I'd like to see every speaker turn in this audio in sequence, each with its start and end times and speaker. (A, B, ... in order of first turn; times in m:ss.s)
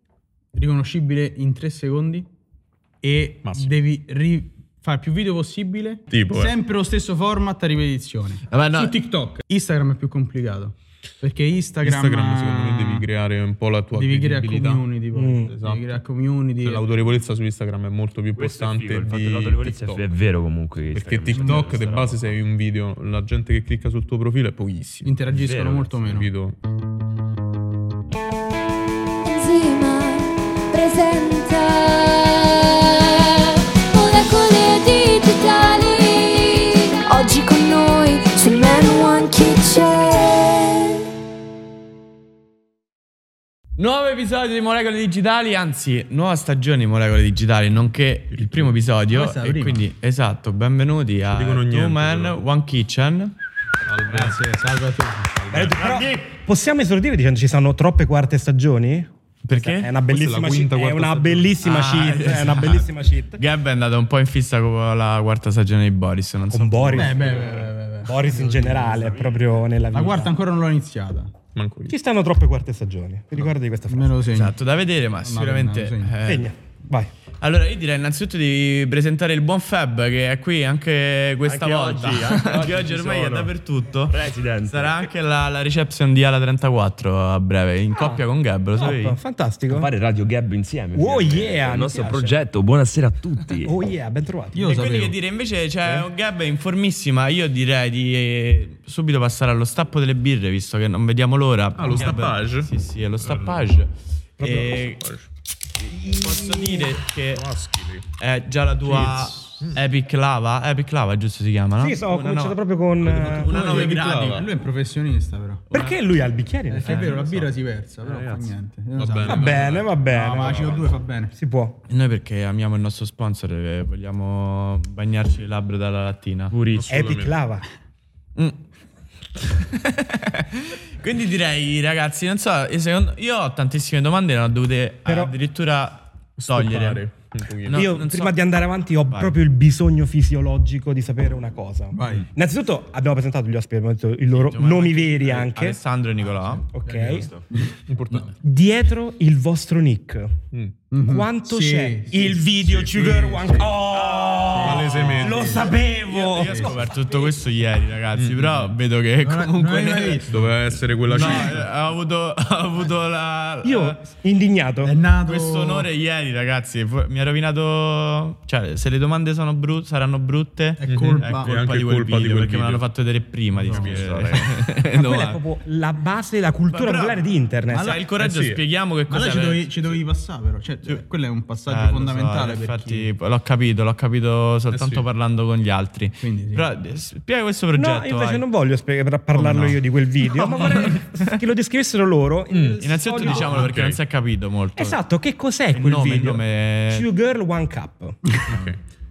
0:00.5-0:02.3 A
0:03.0-0:13.1 A
0:03.4-0:03.8 B
0:06.1-0:06.6 B
0:08.5-0:09.0 C
0:11.8-0:14.9 B
0:13.9-0:16.9 A
0:15.2-0:15.5 D
0:15.5-0:16.0 B
0:16.6-0:20.1 B
0:18.4-0:22.4 E
0:20.9-0:25.2 B
0:21.3-0:21.7 A
0:25.0-0:26.3 A
0:25.3-0:26.0 E
0:26.0-0:26.6 B
0:29.2-0:41.0 F
0:43.8-0:53.3 C
0:49.1-0:49.8 A
0:51.3-0:52.4 B
0:53.8-0:54.5 B
0:54.1-0:55.5 A
0:55.3-0:55.8 B
0:55.5-1:03.4 D
0:59.4-0:59.9 C
1:00.1-1:01.6 B
1:01.6-1:02.9 C
1:03.4-1:07.5 C
1:06.5-1:07.5 D
1:06.9-1:09.2 A
1:08.1-1:10.3 D
1:09.0-1:09.4 E
1:09.9-1:11.3 A
1:11.6-1:12.0 B
1:11.9-1:14.2 D
1:13.9-1:14.6 A
1:14.3-1:16.5 C
1:15.2-1:16.2 A
1:16.2-1:17.1 D
1:17.4-1:24.2 C
1:21.4-1:23.5 E
1:24.0-1:25.0 E
1:24.7-1:29.2 C
1:28.8-1:29.9 D
1:29.7-1:33.8 E
1:31.0-1:32.4 D
1:33.6-1:34.8 D
1:34.5-1:35.2 A
1:34.6-1:45.1 C
1:41.8-1:43.7 B
1:44.4-1:44.7 D
1:44.4-1:45.3 B
1:45.8-1:47.5 C
1:45.8-1:46.9 D
1:47.3-1:48.1 B
1:48.2-1:54.5 C
1:48.8-1:49.6 A
1:51.8-1:53.5 D
1:53.5-1:54.5 B
1:53.5-1:55.7 A
1:55.7-1:57.2 D
1:55.7-1:56.0 C
1:56.7-2:01.4 A
1:56.8-1:57.5 C
1:58.0-1:58.5 E
1:59.0-2:00.9 B
1:59.2-2:00.7 D
2:01.4-2:01.8 D
2:01.9-2:06.6 C
2:06.5-2:07.0 E
2:06.7-2:07.4 B
2:06.9-2:07.6 D
2:09.4-2:17.1 C
2:15.1-2:15.3 D
2:16.4-2:17.9 B
2:17.7-2:18.4 C
2:17.7-2:25.8 D
2:21.9-2:22.3 A
2:24.3-2:26.7 C
2:26.7-2:27.4 D
2:26.8-2:28.2 A
2:27.9-2:28.4 B
2:28.4-2:30.3 D
2:30.5-2:30.8 B
2:30.9-2:33.7 A
2:31.0-2:37.0 D
2:32.6-2:33.2 B
2:34.1-2:34.6 E
2:34.5-2:36.7 A
2:34.6-2:35.6 B
2:36.1-2:40.3 C
2:38.2-2:38.7 B
2:39.2-2:40.4 A
2:40.3-2:41.7 B
2:41.0-2:44.0 C
2:43.6-2:45.0 D
2:44.8-2:45.9 A
2:45.2-2:55.4 C
2:50.8-2:51.5 A
2:50.9-2:52.8 B
2:53.7-2:54.5 E
2:53.7-2:54.2 B
2:54.9-2:58.0 D
2:56.7-3:00.0 C
2:57.7-2:58.1 A
2:58.2-2:58.6 B
2:59.1-3:03.1 A
3:01.7-3:08.4 C
3:04.7-3:05.0 B
3:06.2-3:06.7 A
3:07.7-3:13.6 D
3:09.3-3:11.3 C
3:12.5-3:12.8 B
3:12.8-3:15.0 C
3:13.5-3:14.0 B
3:14.8-3:18.4 D
3:15.7-3:17.1 C
3:18.5-3:18.8 B